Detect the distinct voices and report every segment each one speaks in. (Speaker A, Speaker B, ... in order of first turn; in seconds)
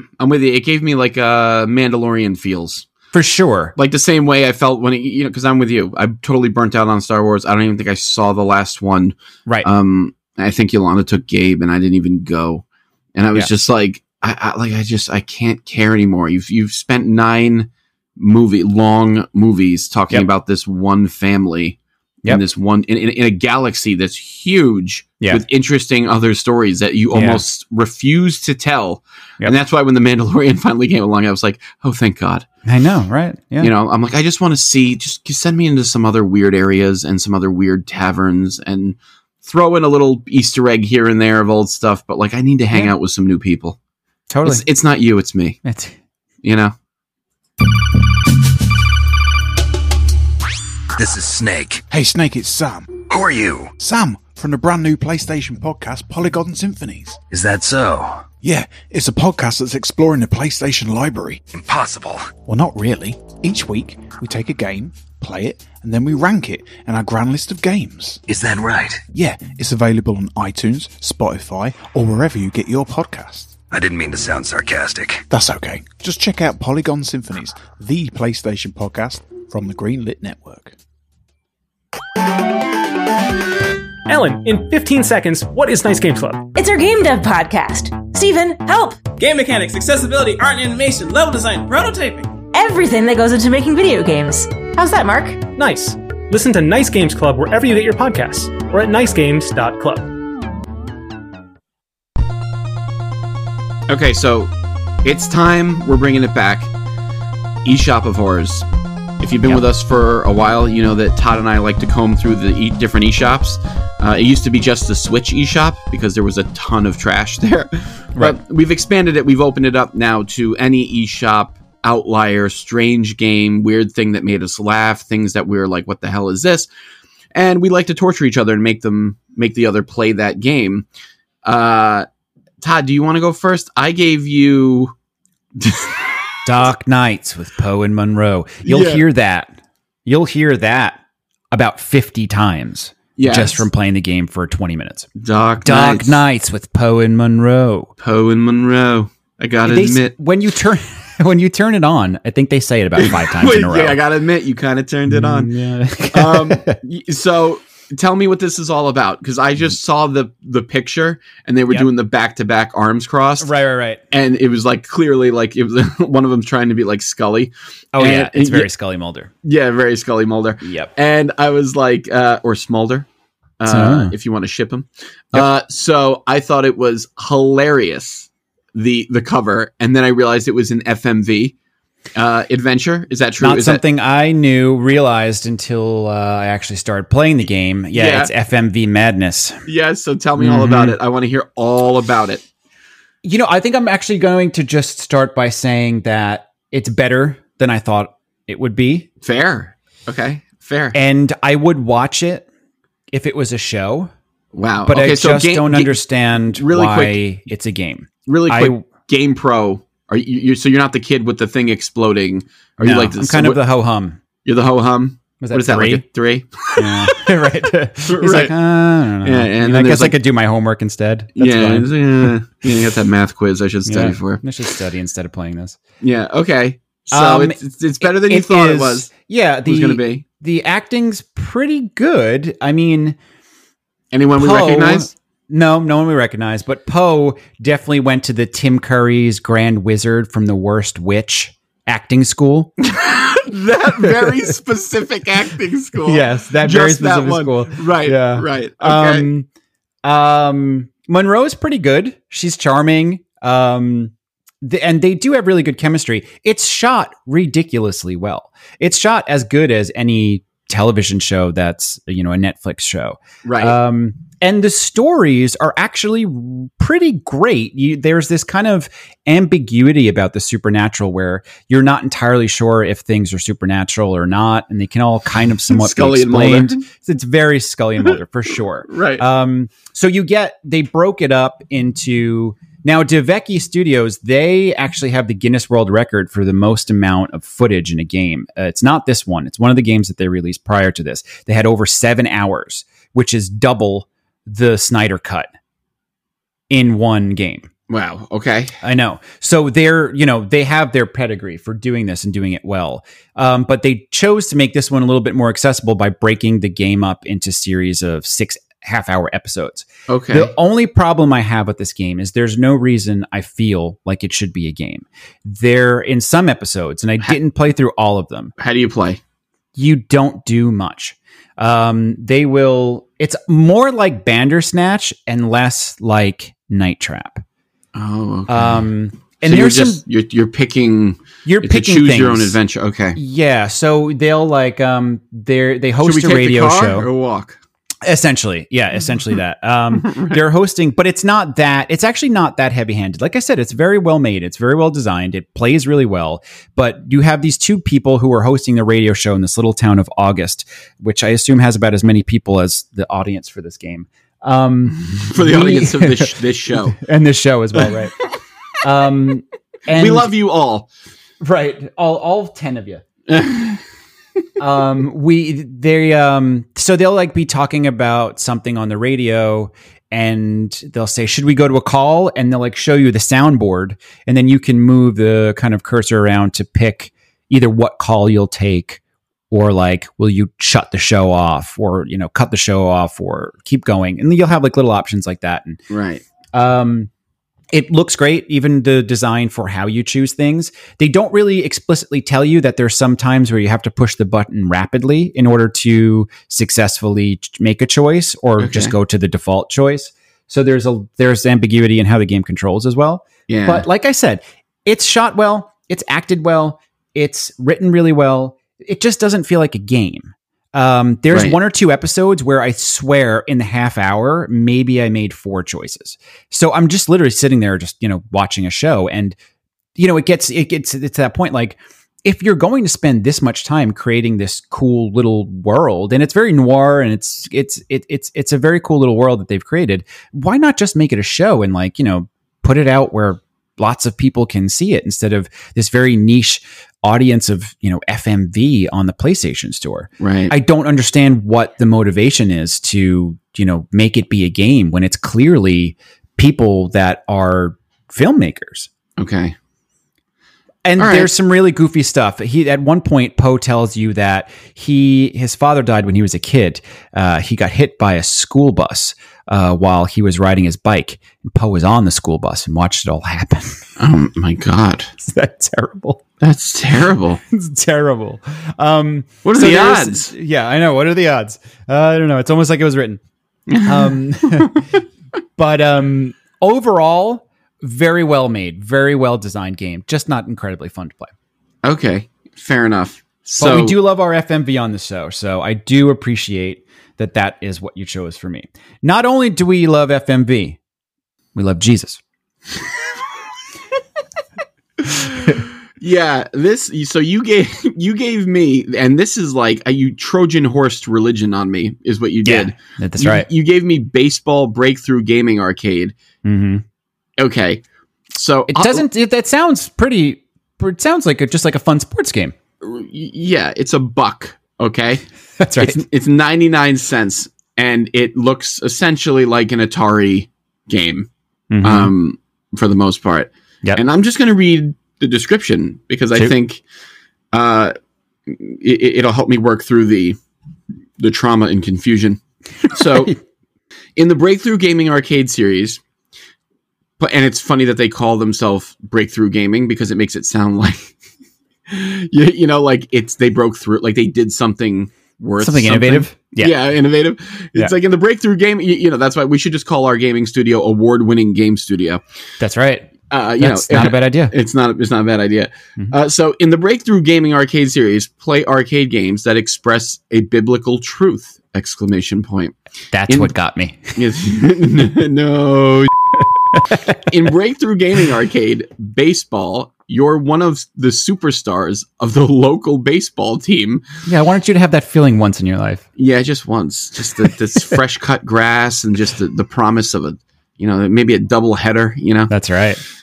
Speaker A: 0.2-2.9, 3.8-32.5, 33.6-43.8, 44.5-45.6, 46.4-46.7, 103.9-104.5, 105.0-106.7, 107.7-108.7, 109.2-126.7, 127.3-130.9, 131.4-132.1, 132.6-134.9, 135.6-136.2, 138.7-139.1, 143.2-143.7, 145.2-146.2, 148.0-150.1, 153.0-155.5, 156.1-163.5, 164.1-168.7, 169.4-173.1, 173.6-181.6, 182.2-183.8, 187.9-188.3, 189.7-192.4, 199.2-201.0, 204.5-207.2, 208.3-213.6, 214.4-217.2, 218.0-218.6, 219.2-220.2, 221.4-224.4, 226.0-229.1, 229.7-230.2, 234.1-235.1, 242.8-249.3, 263.4-263.8, 275.7-276.8, 278.9-279.2, 297.9-298.8, 310.1-310.5, 318.6-319.2, 327.9-328.9, 329.4-333.2, 336.0-337.6, 339.9-340.4, 354.9-357.0, 359.9-360.9, 363.3-363.8, 385.9-386.2, 398.6-398.9, 403.5-403.9, 411.3-411.6, 440.2-440.5, 449.2-449.6, 451.0-451.3, 464.0-465.1, 466.4-467.4, 469.4-470.3, 473.7-474.8, 481.8-484.0, 495.1-506.1, 507.4-509.1, 512.8-515.2, 515.8-521.3, 521.8-526.8, 527.5-528.0, 528.5-530.4, 531.2-533.4, 534.2-536.0, 537.2-541.1, 541.9-552.2, 553.3-562.8, 563.3-563.5, 564.2-566.1, 567.1-574.0, 576.2-582.5
Speaker B: 3.1-3.8, 27.1-27.4, 32.7-33.7, 44.3-44.6, 45.6-46.0, 136.4-139.5, 140.1-141.0, 141.5-145.1, 145.6-147.9, 149.6-154.0, 155.1-156.8, 163.4-164.0, 167.9-169.3, 170.6-170.9, 173.7-174.1, 183.4-189.6, 190.4-191.0, 193.2-199.1, 200.9-202.5, 203.1-204.1, 204.9-208.8, 212.8-214.2, 215.4-216.1, 216.8-222.3, 223.9-225.8, 227.1-233.2, 234.4-242.7, 244.0-244.5, 246.0-249.5, 250.0-295.5, 296.7-297.7, 298.8-318.5, 319.8-327.4, 328.5-330.0, 331.4-332.6, 333.2-337.1, 338.0-358.2, 358.8-360.3, 361.4-363.0, 364.6-379.0, 379.5-385.8, 386.5-387.1, 387.7-419.4, 420.0-448.9, 450.9-463.8, 465.2-466.2, 467.5-473.2, 473.8-475.0, 475.6-481.3, 483.6-490.8, 491.6-492.2, 502.4-503.5, 506.4-506.8, 508.7-512.5, 515.6-516.0, 521.7-522.1, 532.9-533.4, 545.6-546.8, 552.6-554.5, 563.1-564.2, 566.7-567.2, 574.2-576.0, 582.5-583.0
Speaker C: 51.0-51.8, 53.1-53.7, 57.3-58.3, 61.5-62.3, 68.3-69.0, 73.7-75.2
Speaker D: 51.9-53.0, 53.8-57.2, 58.4-61.4, 62.5-68.2, 69.1-73.6, 75.3-80.8
Speaker E: 84.1-86.5, 95.6-100.1
Speaker F: 86.6-89.1, 92.5-95.4
Speaker G: 89.2-92.3